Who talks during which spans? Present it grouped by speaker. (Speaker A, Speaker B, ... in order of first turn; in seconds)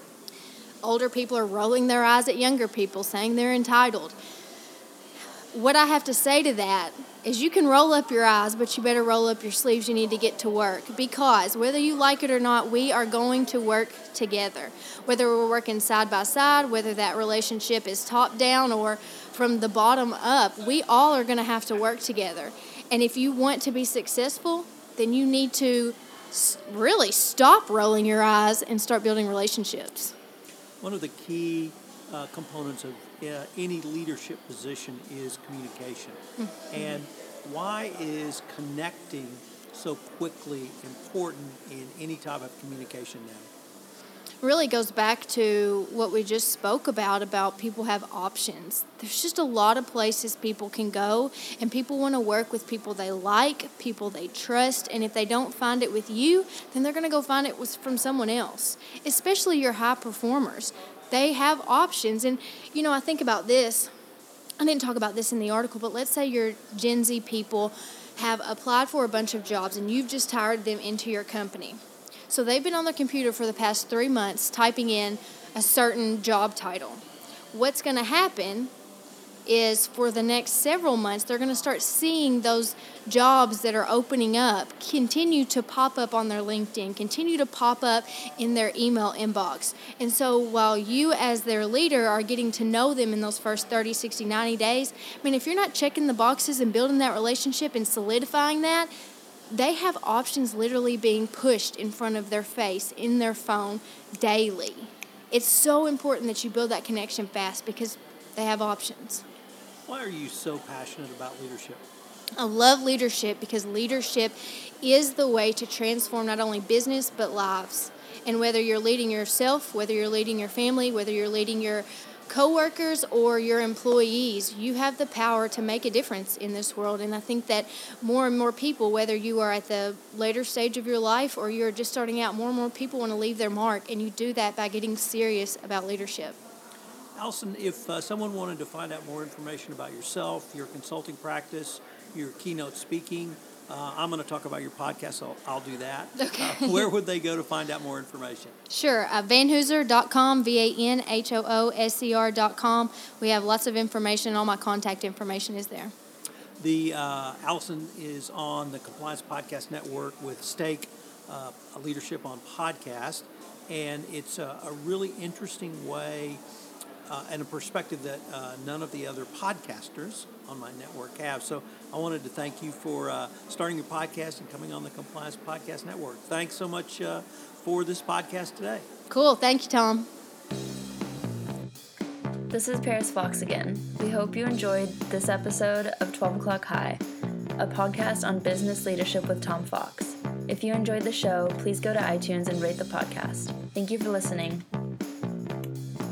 Speaker A: 0.8-4.2, 5.5-30.1, 36.4-37.0, 44.4-63.9, 64.6-78.7, 79.5-98.9, 99.5-109.2, 112.3-136.4, 146.2-146.9, 148.7-155.9, 179.1-180.1
Speaker B: 30.8-36.2, 36.7-43.5, 109.8-111.8, 137.2-148.5, 156.6-166.4, 167.1-178.9
Speaker C: 182.5-187.0, 187.6-194.6